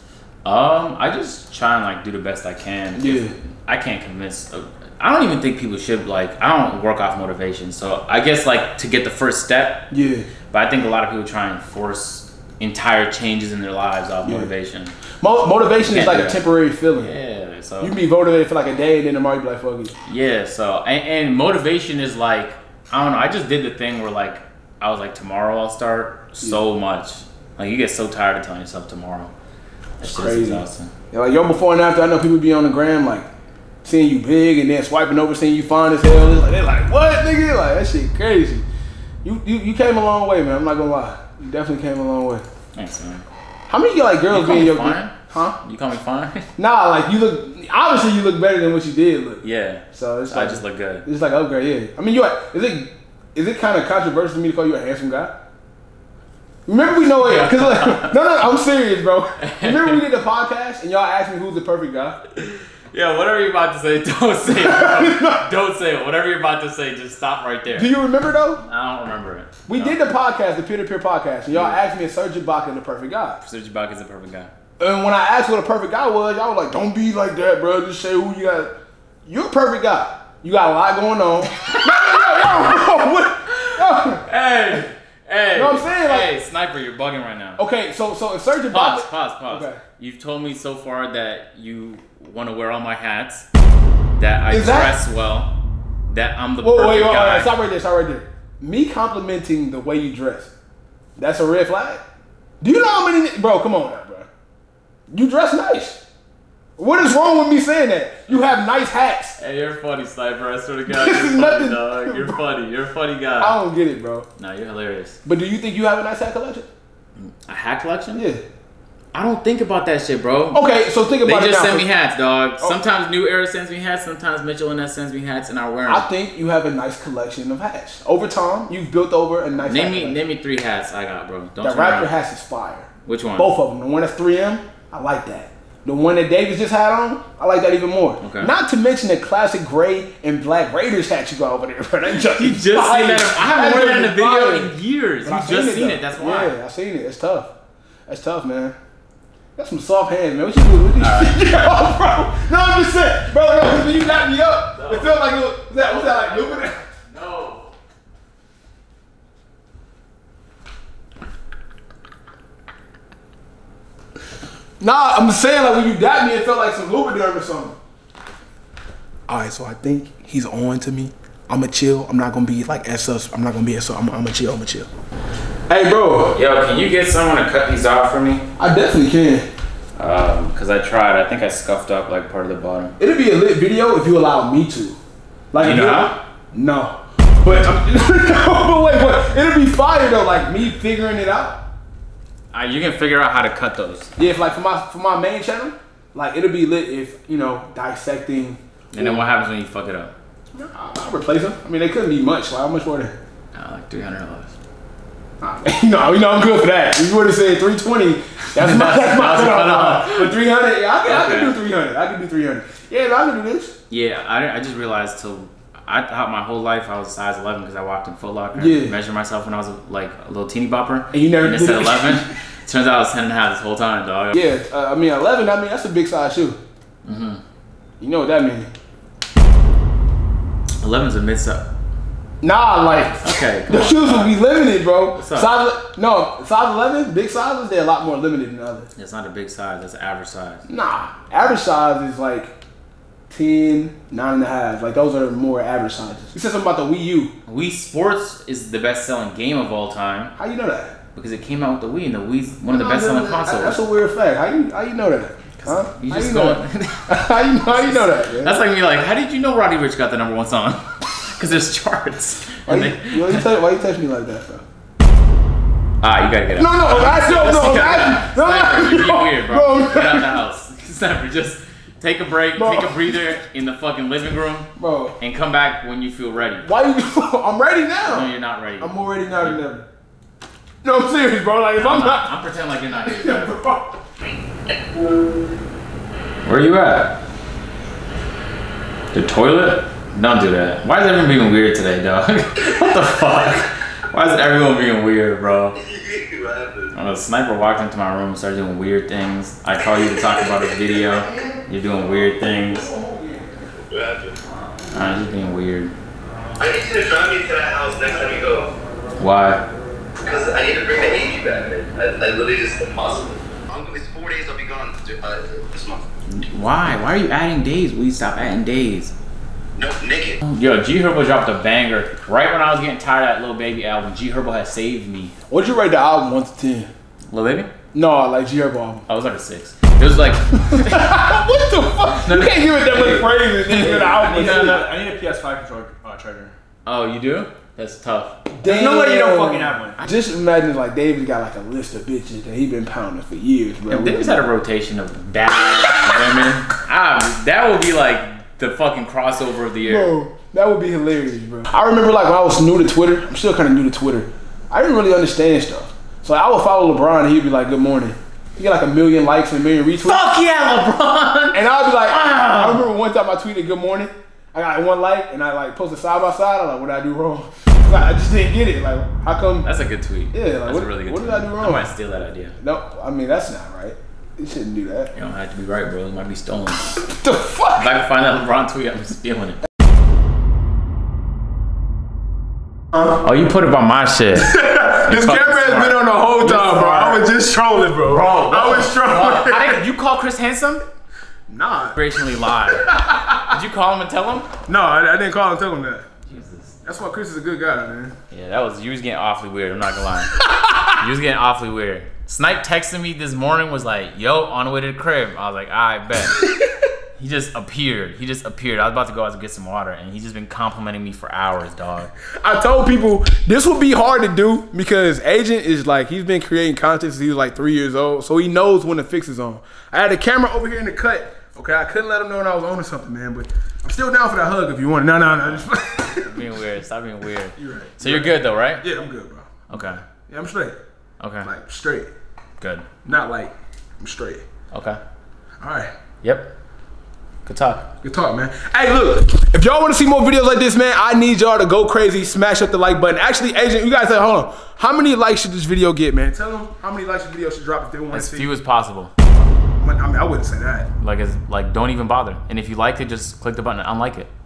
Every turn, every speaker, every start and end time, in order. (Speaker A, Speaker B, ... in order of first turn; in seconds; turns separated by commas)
Speaker A: 0.4-9.9, Speaker B: 3.0-3.3, Speaker B: 9.9-10.3, Speaker A: 10.5-14.9, Speaker B: 14.2-14.5, Speaker B: 15.2-17.1, Speaker A: 15.9-16.4, Speaker A: 17.0-18.0, Speaker B: 17.8-19.9, Speaker A: 20.1-29.3, Speaker A: 30.0-30.9, Speaker B: 30.0-33.3, Speaker B: 33.8-38.6, Speaker B: 39.2-42.5, Speaker A: 42.8-43.2, Speaker B: 43.7-45.6, Speaker A: 44.3-46.5, Speaker B: 46.6-55.4, Speaker A: 49.4-51.0, Speaker B: 56.7-62.2, Speaker A: 57.2-58.2, Speaker A: 59.4-60.0, Speaker A: 62.4-67.9, Speaker B: 64.5-65.5, Speaker B: 67.7-68.6, Speaker A: 68.6-70.0, Speaker B: 69.7-73.4, Speaker A: 71.5-71.8, Speaker A: 73.4-74.5, Speaker B: 74.8-78.7, Speaker B: 79.3-84.2, Speaker A: 83.8-87.6, Speaker B: 85.5-86.3, Speaker B: 87.6-89.8, Speaker A: 88.7-93.5, Speaker A: 94.2-95.5, Speaker B: 94.5-95.0, Speaker A: 96.1-97.5, Speaker B: 96.6-100.5, Speaker B: 101.2-102.0, Speaker B: 102.6-104.3, Speaker B: 105.1-106.0, Speaker B: 106.8-109.4, Speaker A: 109.4-113.6, Speaker B: 110.9-112.4, Speaker B: 113.4-114.3, Speaker A: 114.4-115.2, Speaker B: 115.2-116.7, Speaker A: 117.2-118.2, Speaker B: 118.1-118.4, Speaker A: 119.1-120.7, Speaker B: 120.5-121.9, Speaker A: 121.2-126.1, Speaker B: 125.9-130.2, Speaker A: 129.6-132.1, Speaker B: 131.6-147.5, Speaker A: 133.1-133.5, Speaker A: 138.2-138.5, Speaker A: 142.1-146.6, Speaker B: 148.1-148.8, Speaker B: 149.6-156.8, Speaker A: 151.0-151.6, Speaker A: 154.8-157.7, Speaker B: 164.8-167.8, Speaker B: 169.3-174.9, Speaker B: 175.7-176.3, Speaker A: 176.3-178.5, Speaker B: 178.6-179.5, Speaker A: 180.0-182.9, Speaker B: 183.0-185.0, Speaker B: 185.5-191.6, Speaker A: 185.6-186.2, Speaker A: 192.5-194.1, Speaker B: 194.2-199.2, Speaker A: 198.9-200.1, Speaker B: 200.5-203.2, Speaker A: 203.5-204.5, Speaker B: 205.4-213.8, Speaker A: 208.6-210.4, Speaker A: 211.1-211.6, Speaker A: 213.9-224.4, Speaker B: 218.6-218.9, Speaker B: 221.1-222.3, Speaker B: 224.3-226.6, Speaker A: 227.1-227.4, Speaker B: 228.0-228.7, Speaker A: 230.8-231.7, Speaker B: 232.4-238.9, Speaker A: 233.1-234.4, Speaker A: 235.1-235.5, Speaker A: 239.0-240.7, Speaker B: 240.7-242.5, Speaker B: 243.3-247.3, Speaker A: 247.5-250.3, Speaker B: 250.4-250.9, Speaker A: 251.2-253.8, Speaker B: 252.7-258.6, Speaker A: 255.6-263.5, Speaker B: 262.7-264.6, Speaker A: 266.0-276.7, Speaker B: 266.6-270.4, Speaker B: 272.6-273.2, Speaker B: 274.8-275.1, Speaker B: 276.6-279.9, Speaker A: 278.0-279.6, Speaker B: 280.8-282.3, Speaker A: 281.8-283.6, Speaker B: 283.1-284.0, Speaker A: 286.4-287.2, Speaker A: 289.1-295.8, Speaker C: 295.8-296.9, Speaker A: 296.9-302.9, Speaker B: 302.6-303.7, Speaker C: 303.9-304.4, Speaker A: 304.9-305.9, Speaker C: 306.6-308.7, Speaker A: 309.2-309.6, Speaker C: 310.2-316.0, Speaker A: 316.3-319.1, Speaker C: 319.8-320.4, Speaker A: 320.4-325.3, Speaker B: 325.5-326.9, Speaker A: 327.3-327.7, Speaker B: 327.9-329.1, Speaker A: 329.1-331.1, Speaker B: 330.6-334.9, Speaker A: 332.2-334.9, Speaker D: 332.9-336.6, Speaker A: 336.9-338.4, Speaker B: 338.5-344.4, Speaker D: 338.6-340.0, Speaker A: 343.9-350.1, Speaker B: 349.8-360.3, Speaker A: 360.0-362.9, Speaker B: 361.5-369.7, Speaker A: 369.6-372.6, Speaker B: 370.3-371.9, Speaker B: 372.6-375.1, Speaker A: 375.1-377.0, Speaker B: 377.0-378.0, Speaker A: 377.8-379.6, Speaker A: 383.2-384.5, Speaker B: 384.4-389.9, Speaker A: 385.1-387.3, Speaker A: 387.9-390.9, Speaker B: 391.5-392.1, Speaker A: 391.9-394.5, Speaker B: 392.7-393.5, Speaker B: 394.7-396.1, Speaker A: 396.3-396.8, Speaker B: 396.8-398.1, Speaker A: 398.3-406.4, Speaker B: 400.5-400.8, Speaker A: 407.2-412.1, Speaker B: 412.3-426.4, Speaker A: 426.2-428.9, Speaker B: 427.6-430.8, Speaker A: 429.7-430.0, Speaker A: 431.2-431.5, Speaker B: 431.4-432.1, Speaker A: 432.6-432.9, Speaker B: 433.1-434.4, Speaker A: 434.7-435.0, Speaker B: 435.6-435.9, Speaker A: 436.2-436.5, Speaker A: 437.5-437.9, Speaker B: 438.0-448.5, Speaker A: 448.1-449.1, Speaker B: 449.8-450.9, Speaker A: 451.0-454.3